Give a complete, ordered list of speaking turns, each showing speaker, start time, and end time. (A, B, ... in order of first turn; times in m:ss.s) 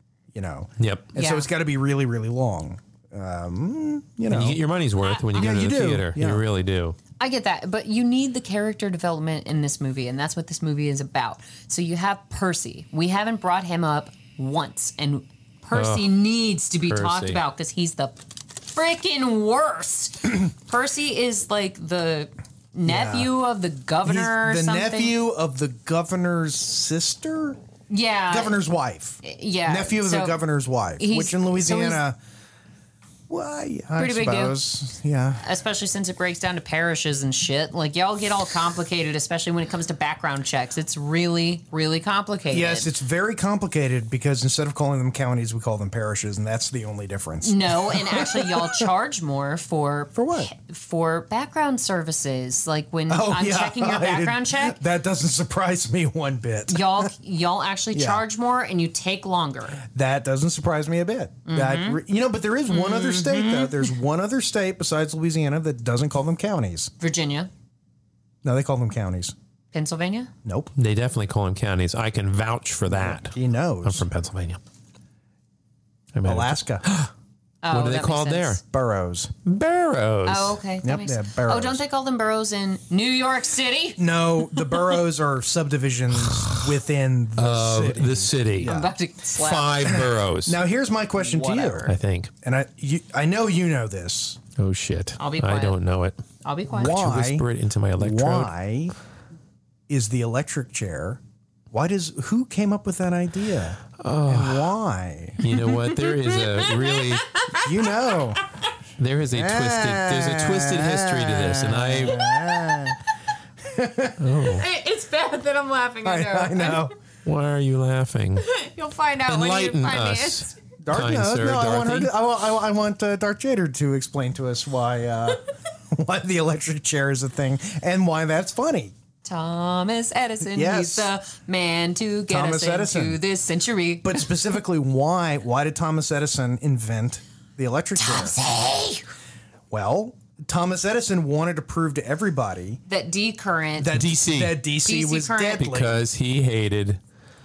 0:00.3-0:04.6 A
0:00.8-0:01.1 B
0:01.1-0:01.5 C
0:04.3-0:07.0 B
0:05.0-0:05.5 C
0:05.3-0:06.4 A
0:07.2-0:25.2 C
0:15.7-0:16.1 B
0:16.9-0:17.4 B
0:22.8-0:23.3 A
0:24.0-0:27.6 A
0:27.9-0:28.6 C
0:28.3-0:32.2 A
0:29.2-0:30.4 C
0:31.0-0:32.0 C
0:33.3-0:35.4 A
0:34.0-0:34.6 C
0:35.4-0:42.9 C
0:42.5-0:48.9 A
0:47.4-0:54.8 C
0:50.1-0:50.5 A
0:53.1-0:57.1 A
0:56.7-0:59.8 C
0:57.9-0:58.2 A
0:59.8-1:06.9 A
1:01.4-1:02.0 C
1:02.7-1:03.9 C
1:07.0-1:07.5 C
1:08.4-1:09.3 A
1:09.7-1:10.3 C
1:10.4-1:10.7 A
1:10.8-1:14.6 B
1:12.9-1:14.0 A
1:16.1-1:17.1 B
1:16.2-1:16.8 A
1:17.6-1:18.6 C
1:17.7-1:18.6 B
1:18.6-1:19.3 A
1:19.4-1:20.6 B
1:20.2-1:24.9 C
1:20.8-1:21.8 A
1:24.0-1:28.9 A
1:26.3-1:26.6 B
1:27.4-1:28.7 B
1:28.6-1:29.9 C
1:29.3-1:30.6 B
1:29.8-1:34.4 A
1:31.2-1:31.9 C
1:31.8-1:32.3 B
1:34.6-1:36.2 B
1:35.2-1:35.8 C
1:36.4-1:37.0 C
1:36.7-1:37.4 A
1:36.8-1:38.5 B
1:38.0-1:38.9 A
1:39.9-1:41.2 A
1:41.7-1:45.4 A
1:44.0-1:44.7 B
1:45.4-1:47.4 B
1:45.5-1:48.7 C
1:47.6-1:48.4 A
1:49.0-1:52.2 B
1:49.3-1:53.0 A
1:52.1-1:52.9 C
1:53.6-1:54.2 A
1:54.2-1:54.6 B
1:54.5-1:56.9 C
1:56.0-1:56.9 A
1:57.2-1:58.5 B
1:58.4-2:00.5 C
1:59.2-2:02.1 B
2:00.8-2:08.9 A
2:09.2-2:14.3 C
2:10.5-2:11.1 A
2:12.3-2:13.2 A
2:14.0-2:18.4 A
2:18.0-2:19.0 C
2:19.7-2:22.8 A
2:22.9-2:24.0 C
2:23.8-2:26.0 A
2:23.9-2:24.6 B
2:24.8-2:25.7 C
2:25.6-2:27.0 B